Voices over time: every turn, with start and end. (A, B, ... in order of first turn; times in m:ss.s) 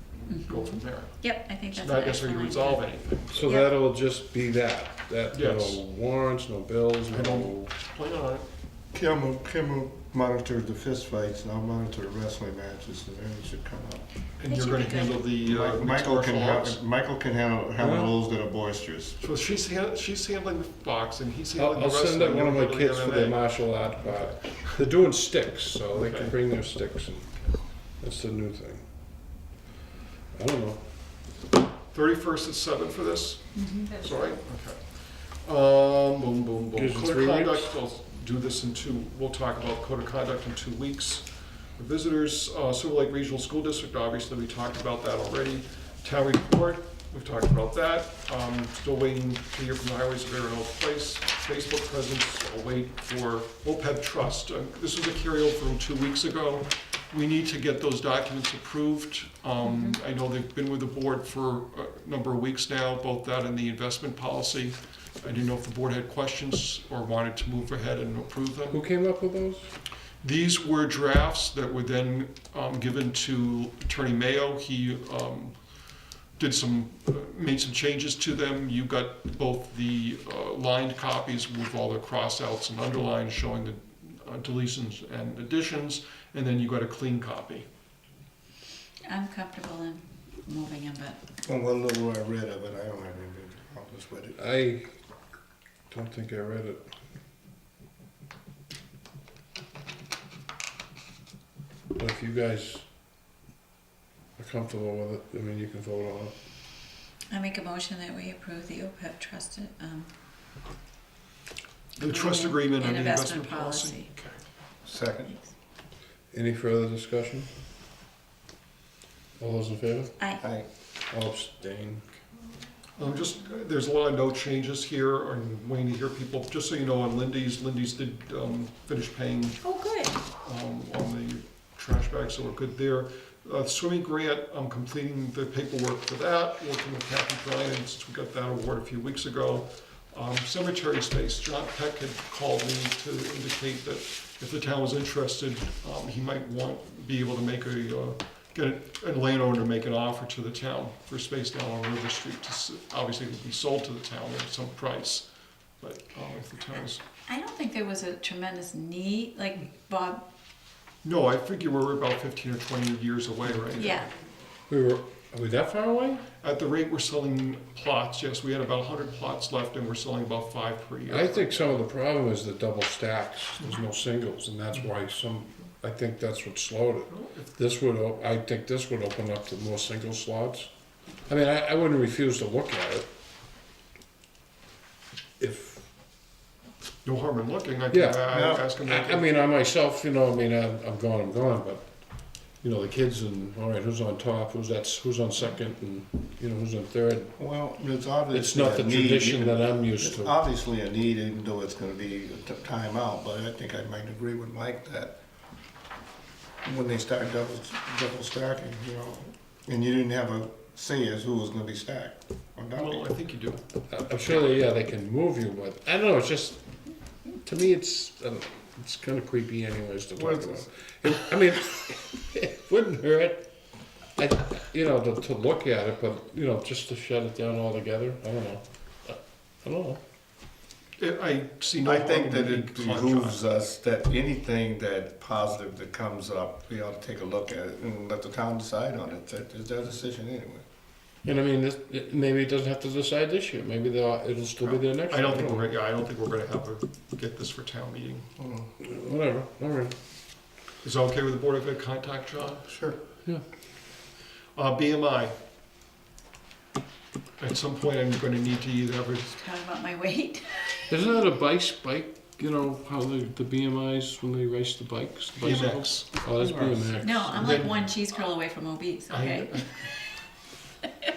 0:00.2-0:03.5 A
0:00.3-0:03.7 B
0:03.3-0:07.7 C
0:05.3-0:05.8 A
0:07.1-0:08.4 A
0:08.9-0:14.1 D
0:14.4-0:16.8 A
0:14.5-0:15.2 B
0:15.4-0:19.2 D
0:17.8-0:18.1 C
0:19.2-0:24.7 A
0:21.6-0:27.4 C
0:25.9-0:26.3 A
0:28.0-0:28.8 C
0:30.3-0:30.9 C
0:31.9-1:08.8 A
0:33.5-0:34.0 B
0:36.7-0:37.7 C
0:59.6-1:00.0 B
1:08.7-1:09.7 C
1:10.2-1:15.6 A
1:16.4-1:27.7 A
1:29.0-1:31.2 B
1:31.4-1:34.4 D
1:34.4-1:34.9 C
1:35.9-1:36.8 C
1:41.9-1:42.8 C
1:44.4-1:46.3 C
1:47.3-1:50.1 B
1:52.0-1:54.4 A
1:52.0-1:54.1 B
1:54.8-1:55.4 D
1:56.3-1:57.5 C
1:59.4-2:00.3 C
2:00.4-2:00.7 D
2:01.1-2:02.0 C
2:03.0-2:09.6 A
2:09.6-2:10.1 B
2:10.4-2:35.3 A
2:35.8-2:37.0 A
2:37.3-2:40.2 B
2:41.0-2:44.1 A
2:43.8-2:44.1 B
2:44.7-2:46.2 C
2:46.4-2:51.8 A
2:51.1-3:00.7 C
2:57.1-2:57.5 A
3:01.2-3:03.1 C
3:05.4-3:05.9 C
3:07.0-3:09.2 A
3:07.9-3:11.8 C
3:08.3-3:08.6 D
3:12.6-3:17.3 C
3:17.4-3:25.1 D
3:18.3-3:20.3 C
3:26.6-3:33.1 D
3:32.8-3:33.6 A
3:33.9-3:36.6 C
3:37.2-3:43.4 C
3:40.2-3:40.8 D
3:44.2-3:50.0 C
3:51.0-3:53.4 A
3:51.8-4:00.6 D
4:01.2-4:05.7 C
4:05.1-4:08.3 A
4:08.4-4:08.7 D
4:08.8-4:09.9 C
4:10.8-4:12.6 A
4:12.7-4:13.0 D
4:14.5-4:15.3 A
4:17.4-4:19.4 A
4:19.4-4:20.8 B
4:20.9-4:27.7 C
4:25.4-4:26.1 A
4:26.4-4:26.9 D
4:27.0-4:29.6 B
4:27.3-4:28.0 A
4:29.1-4:29.9 A